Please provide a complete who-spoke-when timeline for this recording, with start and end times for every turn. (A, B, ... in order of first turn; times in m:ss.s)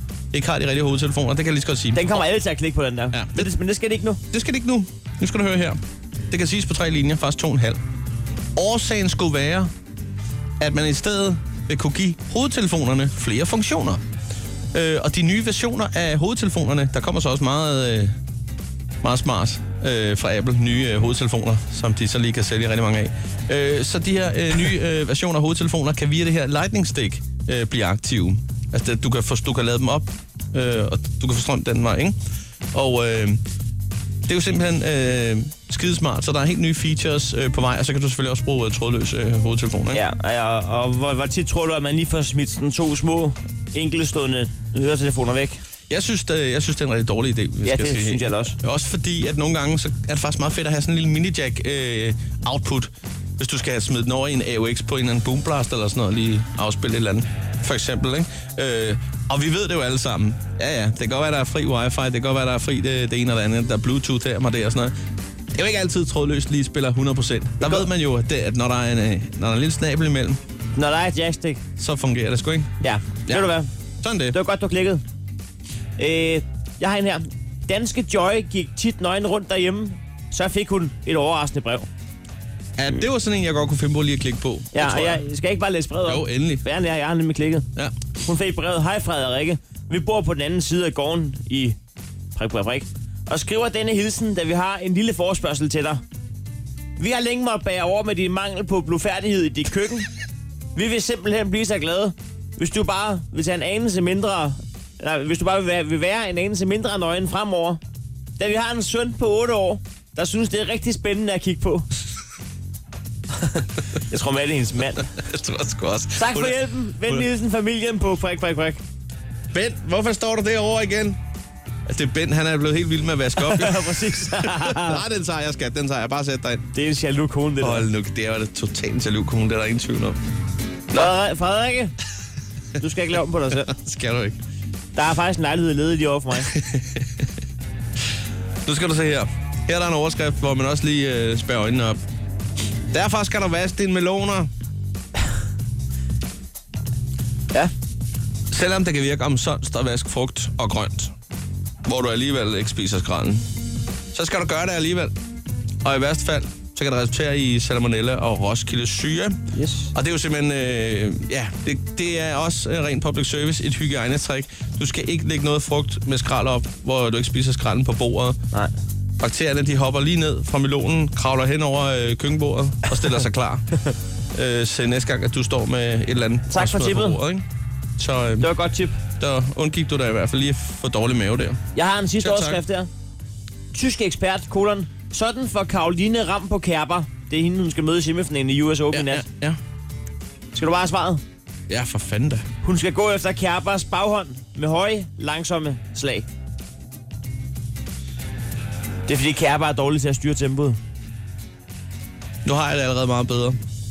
0:00.3-0:02.1 A
0:01.9-0:04.2 B
0:03.1-0:03.5 A
0:04.3-0:07.8 A
0:08.6-0:09.7 A
0:10.6-0:14.0 A
0:14.7-0:18.2 A
0:19.0-0:32.2 A
0:32.7-0:33.4 A
0:34.2-0:40.0 A
0:39.9-0:45.6 B
0:45.9-1:05.0 A
0:47.6-0:48.6 B
1:05.5-1:10.4 A
1:07.6-1:07.9 B
1:10.8-1:11.6 B
1:11.8-1:12.7 A
1:12.8-1:13.7 B
1:13.3-1:14.4 A
1:14.3-1:15.0 B
1:16.0-1:21.9 B
1:22.8-1:25.2 A
1:24.7-1:27.7 B
1:26.0-1:26.6 A
1:28.2-1:31.8 B
1:32.4-1:36.0 B
1:37.0-1:40.1 B
1:40.7-1:47.8 B
1:48.4-1:51.9 B
1:53.4-1:55.1 B
1:55.0-1:57.3 A
1:56.2-1:58.8 B
1:59.5-2:01.2 A
2:01.8-2:06.7 A
2:03.4-2:05.0 B
2:06.7-2:07.8 B
2:07.6-2:10.2 A
2:10.9-2:11.9 B
2:12.8-2:13.7 B
2:13.5-2:14.4 A
2:14.9-2:16.5 B
2:16.5-2:17.3 A
2:18.6-2:22.0 A
2:22.9-2:24.5 A
2:28.5-2:31.1 A
2:31.8-2:33.4 A
2:34.1-2:35.1 A
2:35.8-2:39.4 A
2:39.5-2:39.9 B
2:39.9-2:48.4 A
2:49.2-2:53.6 A
2:54.3-2:57.4 A
2:56.5-2:57.2 B
2:58.0-2:58.5 A
2:58.4-2:59.0 B
2:59.2-3:01.6 A
3:01.7-3:02.9 B
3:02.2-3:02.6 A
3:03.7-3:09.2 B
3:08.9-3:09.6 A
3:10.5-3:11.2 B
3:11.7-3:12.5 A
3:12.6-3:16.3 B
3:19.1-3:20.8 B
3:22.4-3:23.6 A